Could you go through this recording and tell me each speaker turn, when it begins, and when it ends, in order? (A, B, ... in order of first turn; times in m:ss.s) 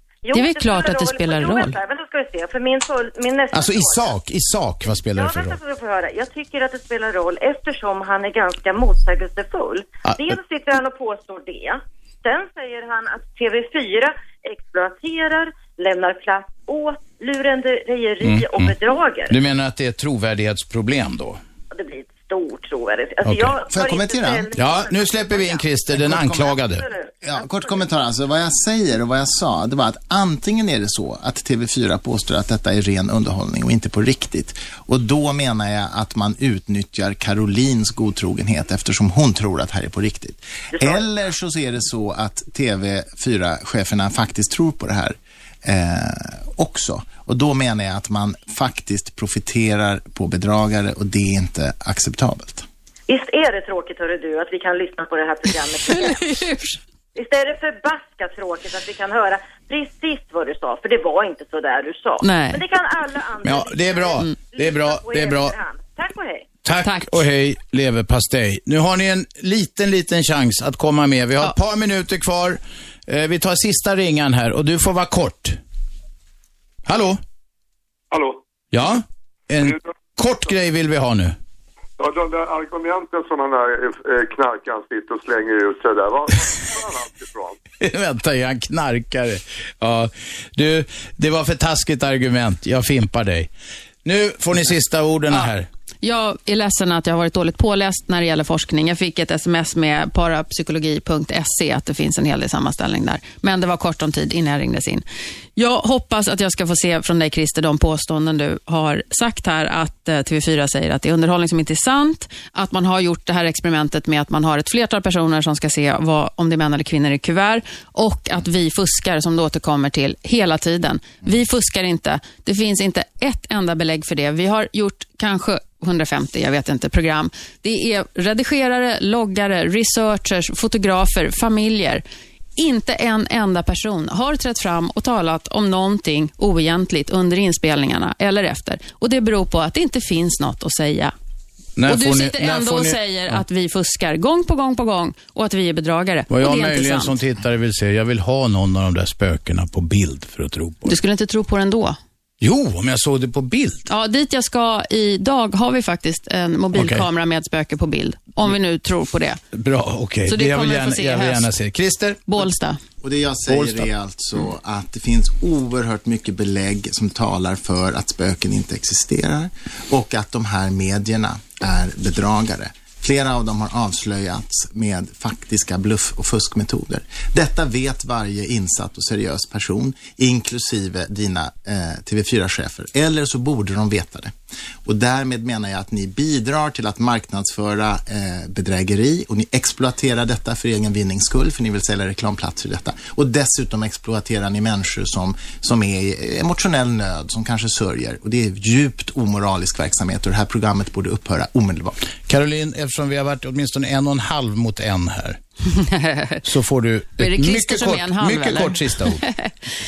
0:00.2-0:04.1 A
0:00.3-0:01.8 B
0:03.5-0:05.6 C
0:05.1-0:19.3 A
0:10.0-0:10.4 C
0:18.2-0:18.8 C
0:19.3-0:21.4 C
0:21.7-0:25.7 A
0:23.2-0:23.6 C
0:23.6-0:24.4 D
0:24.5-0:26.8 C
0:26.0-0:26.6 D
0:26.7-0:27.8 A
0:27.2-0:52.6 D
0:40.8-0:41.0 A
0:53.1-0:56.4 A
0:55.9-0:56.8 B
0:57.1-1:06.4 A
1:02.2-1:02.6 B
1:03.4-1:05.6 C
1:06.6-1:15.6 C
1:06.8-1:07.2 B
1:16.9-1:17.2 C
1:18.1-1:18.4 E
1:18.7-1:21.4 C
1:22.0-1:27.6 E
1:27.8-1:33.5 C
1:34.0-1:35.7 C
1:36.0-1:45.0 B
1:45.6-2:12.0 B
2:12.6-2:21.1 B
2:21.8-2:23.4 C
2:21.9-2:27.1 B
2:26.3-2:31.0 C
2:30.8-2:32.0 B
2:32.4-2:33.8 C
2:33.9-2:39.4 B
2:36.7-2:37.0 C
2:39.5-2:42.5 C
2:40.3-2:41.5 B
2:42.3-2:42.8 B
2:43.0-3:04.3 D
2:43.5-2:43.9 C
3:04.8-3:22.0 D
3:22.3-3:25.4 C
3:25.7-3:26.4 B
3:26.4-3:29.2 C
3:27.2-3:29.5 B